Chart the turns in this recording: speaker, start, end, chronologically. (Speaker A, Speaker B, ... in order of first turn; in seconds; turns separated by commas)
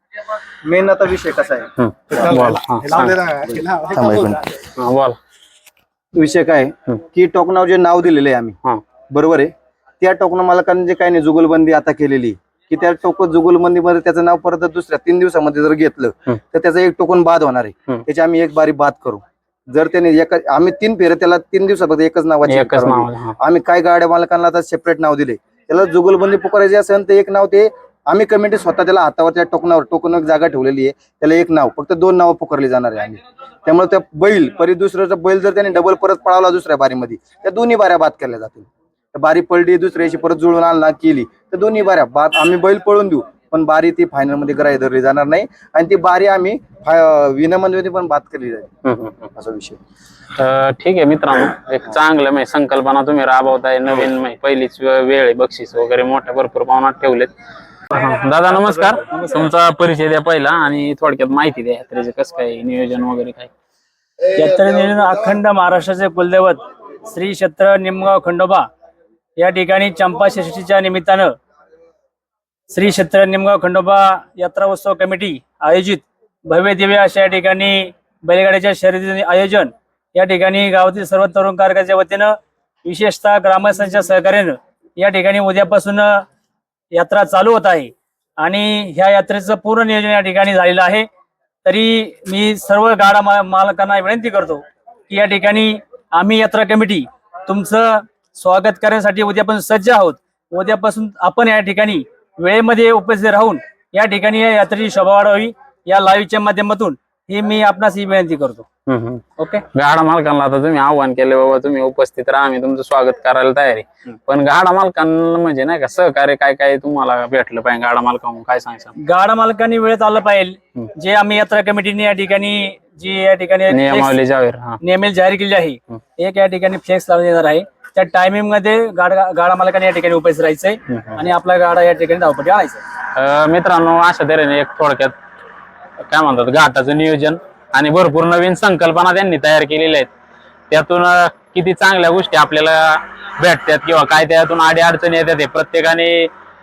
Speaker A: 0.7-1.7, Speaker B: 1.8-3.2, Speaker A: 3.2-4.4, Speaker B: 4.8-5.2, Speaker A: 6.1-8.6, Speaker A: 9.1-9.5, Speaker A: 10.0-48.7, Speaker B: 22.5-23.3, Speaker B: 48.8-49.3, Speaker A: 49.3-49.8, Speaker B: 50.4-57.3, Speaker B: 57.9-63.5, Speaker C: 58.5-59.5, Speaker C: 64.3-68.7, Speaker C: 69.4-71.3, Speaker C: 72.7-86.2, Speaker C: 86.9-91.1, Speaker C: 91.6-108.7, Speaker B: 108.9-118.9, Speaker C: 109.4-109.6, Speaker C: 119.0-124.2, Speaker B: 123.7-124.8, Speaker C: 124.8-132.8, Speaker B: 130.9-131.2, Speaker B: 133.1-135.1, Speaker B: 136.0-140.1, Speaker B: 140.7-146.3